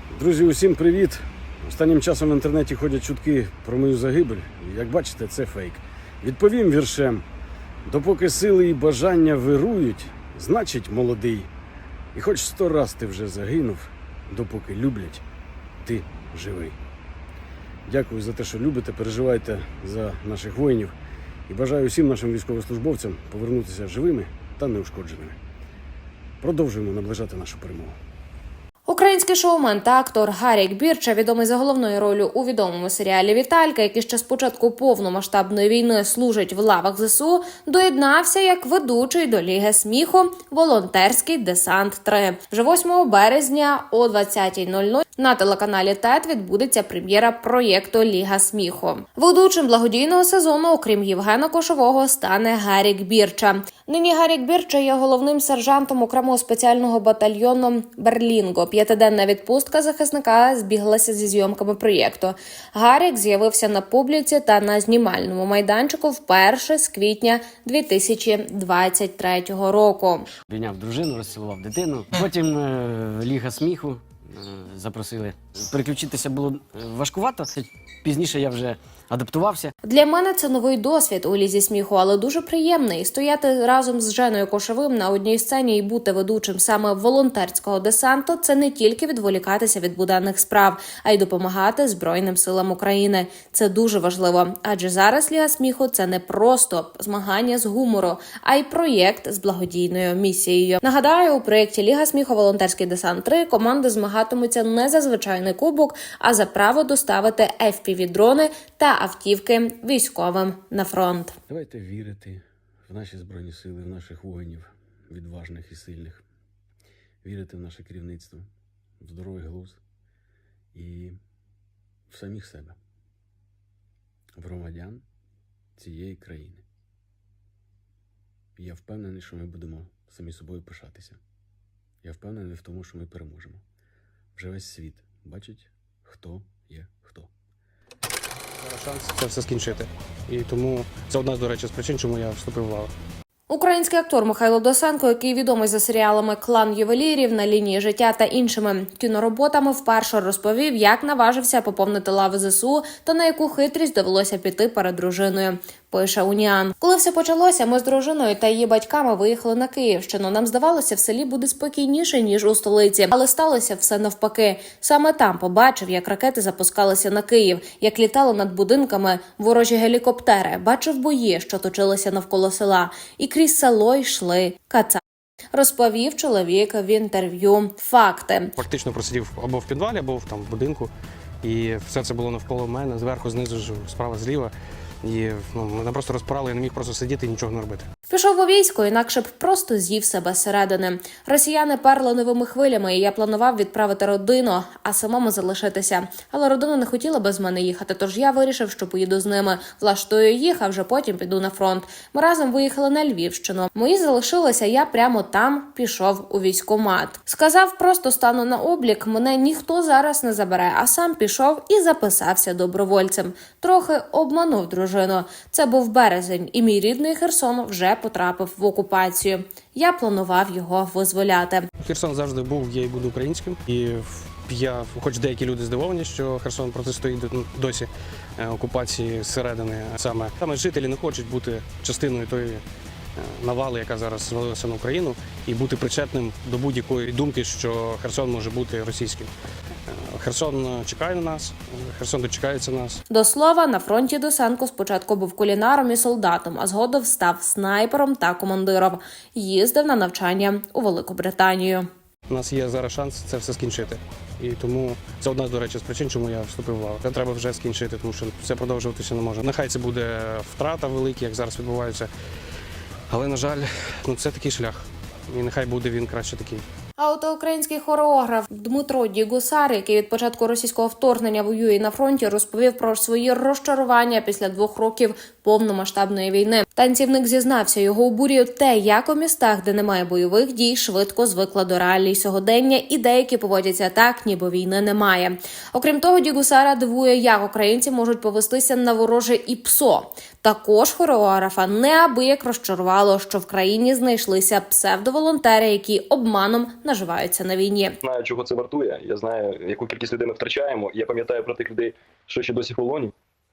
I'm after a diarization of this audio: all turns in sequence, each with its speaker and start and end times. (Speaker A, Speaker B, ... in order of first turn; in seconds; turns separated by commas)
Speaker A: 0.1-7.2, Speaker A: 7.8-11.5, Speaker A: 12.1-15.2, Speaker A: 15.8-16.8, Speaker A: 17.9-20.9, Speaker A: 21.5-25.4, Speaker A: 26.4-27.9, Speaker B: 28.9-70.3, Speaker C: 70.5-79.7, Speaker B: 79.8-111.3, Speaker A: 111.5-116.2, Speaker A: 117.2-118.5, Speaker A: 119.0-119.8, Speaker A: 120.7-121.2, Speaker A: 122.1-122.8, Speaker A: 124.3-125.0, Speaker A: 125.8-126.6, Speaker A: 128.6-131.2, Speaker A: 132.0-133.6, Speaker A: 134.3-137.3, Speaker D: 138.6-142.9, Speaker B: 143.5-175.0, Speaker B: 175.5-178.6, Speaker D: 178.6-180.9, Speaker D: 181.4-184.5, Speaker D: 185.0-187.9, Speaker B: 188.1-221.7, Speaker D: 221.8-232.6, Speaker D: 233.2-239.3, Speaker D: 239.9-243.0, Speaker B: 243.1-251.9, Speaker D: 252.3-262.1, Speaker D: 263.1-266.6, Speaker B: 267.0-298.0, Speaker E: 298.0-303.1